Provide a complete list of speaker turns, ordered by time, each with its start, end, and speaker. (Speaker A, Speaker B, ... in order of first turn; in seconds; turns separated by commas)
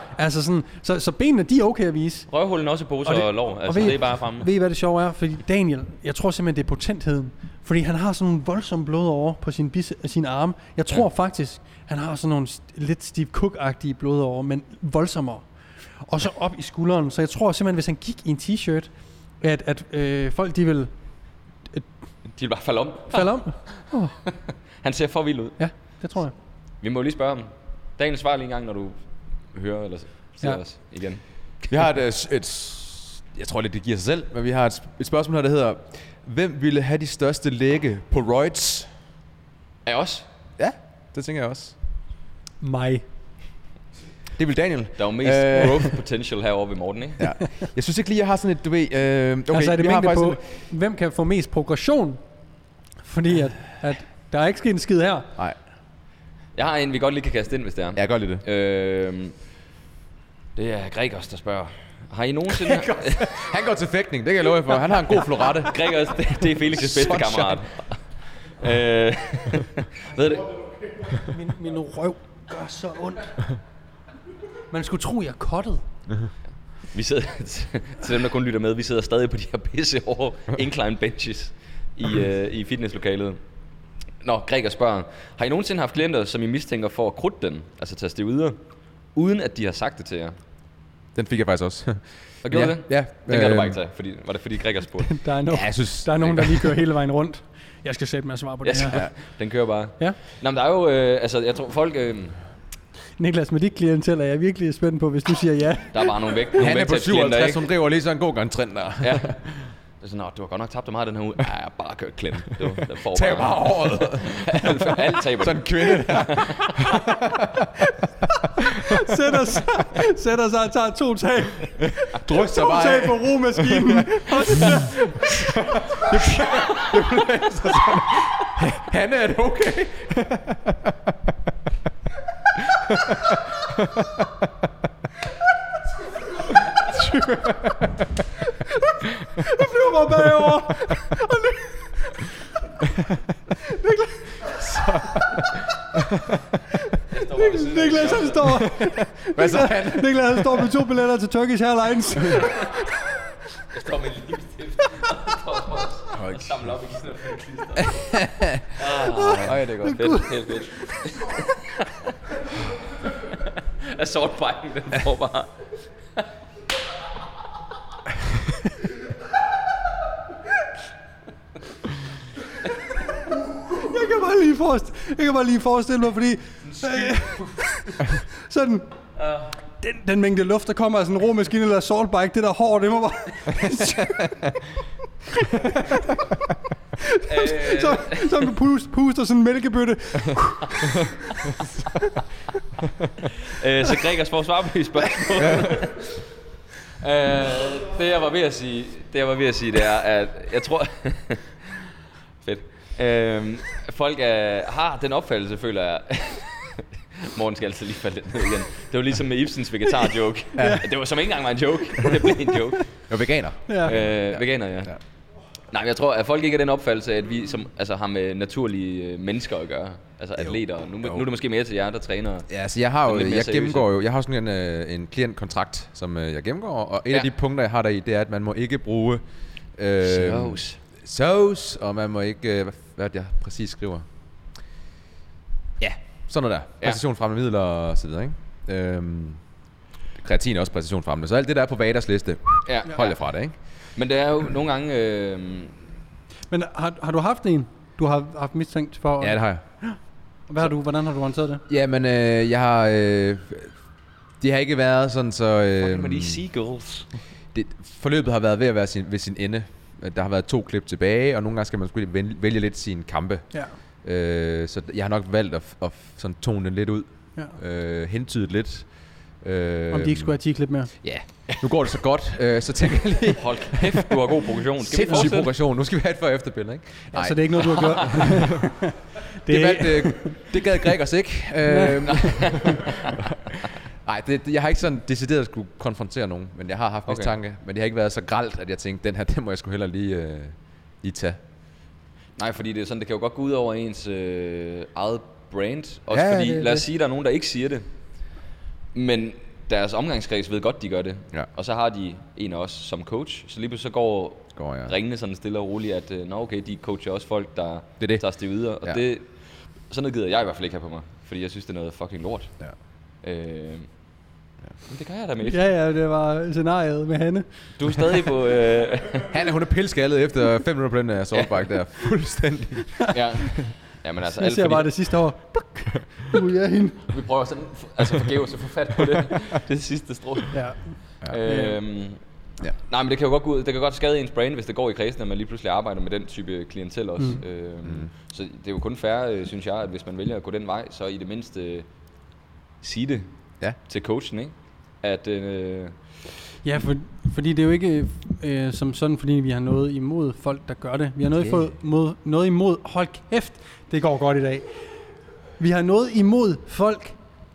Speaker A: 0.1-2.3, Speaker B: 2.3-4.5, Speaker A: 3.0-15.4, Speaker A: 16.0-20.9, Speaker B: 22.4-25.6, Speaker A: 23.1-24.1, Speaker A: 25.6-26.3, Speaker B: 26.8-28.9, Speaker B: 29.5-31.2, Speaker C: 31.7-38.9, Speaker B: 39.8-40.2, Speaker C: 40.6-41.7, Speaker A: 42.6-43.0, Speaker C: 44.4-46.0, Speaker B: 45.0-47.3, Speaker C: 47.2-50.4, Speaker A: 49.5-52.2, Speaker A: 53.0-55.3, Speaker B: 56.5-59.3, Speaker C: 58.0-58.4, Speaker B: 60.5-63.4, Speaker C: 62.6-67.6, Speaker B: 65.6-70.7, Speaker A: 71.2-73.4, Speaker A: 74.7-75.8, Speaker B: 76.9-83.4, Speaker B: 84.2-88.6, Speaker B: 89.1-90.3, Speaker C: 91.1-93.8, Speaker B: 92.4-95.2, Speaker A: 95.0-99.0, Speaker C: 95.5-96.7, Speaker B: 98.6-102.4, Speaker A: 103.2-106.4, Speaker B: 105.9-107.6, Speaker C: 106.6-109.4, Speaker B: 109.0-109.4, Speaker B: 110.0-116.8, Speaker C: 113.1-117.8, Speaker A: 118.3-126.0, Speaker C: 122.0-131.1, Speaker B: 126.5-127.1, Speaker C: 132.5-134.3, Speaker C: 136.5-138.2, Speaker A: 138.5-142.9, Speaker A: 143.6-145.2, Speaker C: 144.5-146.4, Speaker A: 146.8-152.7, Speaker B: 147.1-148.6, Speaker C: 148.5-150.7, Speaker B: 153.7-162.1, Speaker C: 156.1-156.7, Speaker C: 157.8-158.6, Speaker A: 159.0-161.3, Speaker C: 159.4-160.2, Speaker B: 163.3-165.5, Speaker A: 173.5-178.8, Speaker B: 176.6-177.8, Speaker B: 179.2-179.5, Speaker A: 179.8-184.6, Speaker A: 185.3-186.4, Speaker A: 187.0-191.1, Speaker B: 187.2-188.5, Speaker B: 193.4-196.2, Speaker C: 195.4-195.7, Speaker B: 196.9-201.8, Speaker B: 202.4-213.0, Speaker A: 210.6-210.8, Speaker C: 210.6-210.8, Speaker C: 213.1-214.9, Speaker A: 213.7-213.9, Speaker B: 213.8-214.9, Speaker B: 215.7-222.5, Speaker C: 222.5-229.2, Speaker B: 223.1-223.9, Speaker C: 229.8-234.1, Speaker B: 230.0-230.8, Speaker C: 235.8-239.4, Speaker C: 240.2-243.5, Speaker B: 242.7-243.2, Speaker B: 243.9-245.7, Speaker A: 246.5-250.0, Speaker C: 249.2-249.6, Speaker A: 250.5-251.6, Speaker C: 251.7-253.7, Speaker C: 254.4-256.4, Speaker B: 255.8-257.1, Speaker C: 257.5-263.5, Speaker C: 264.0-268.9, Speaker C: 269.4-270.4, Speaker A: 269.9-270.9, Speaker C: 271.0-274.2, Speaker B: 273.4-275.5, Speaker C: 274.8-278.7, Speaker A: 277.1-280.4, Speaker B: 277.7-278.2, Speaker C: 279.5-291.4, Speaker A: 281.7-282.7, Speaker B: 282.1-283.2, Speaker B: 287.1-287.3, Speaker B: 292.4-297.9, Speaker C: 296.1-296.8, Speaker B: 298.9-309.3, Speaker C: 304.6-304.9, Speaker B: 309.9-312.5, Speaker B: 313.2-313.9, Speaker B: 314.9-315.6, Speaker A: 315.4-317.5, Speaker B: 317.8-319.4, Speaker C: 319.3-323.7, Speaker B: 321.3-321.7, Speaker B: 323.1-324.9, Speaker A: 324.4-327.1, Speaker B: 327.1-332.2, Speaker A: 330.5-331.8, Speaker B: 332.9-341.9, Speaker C: 337.8-338.1, Speaker B: 342.8-343.3, Speaker B: 343.9-345.9, Speaker A: 346.6-354.9, Speaker A: 355.6-357.2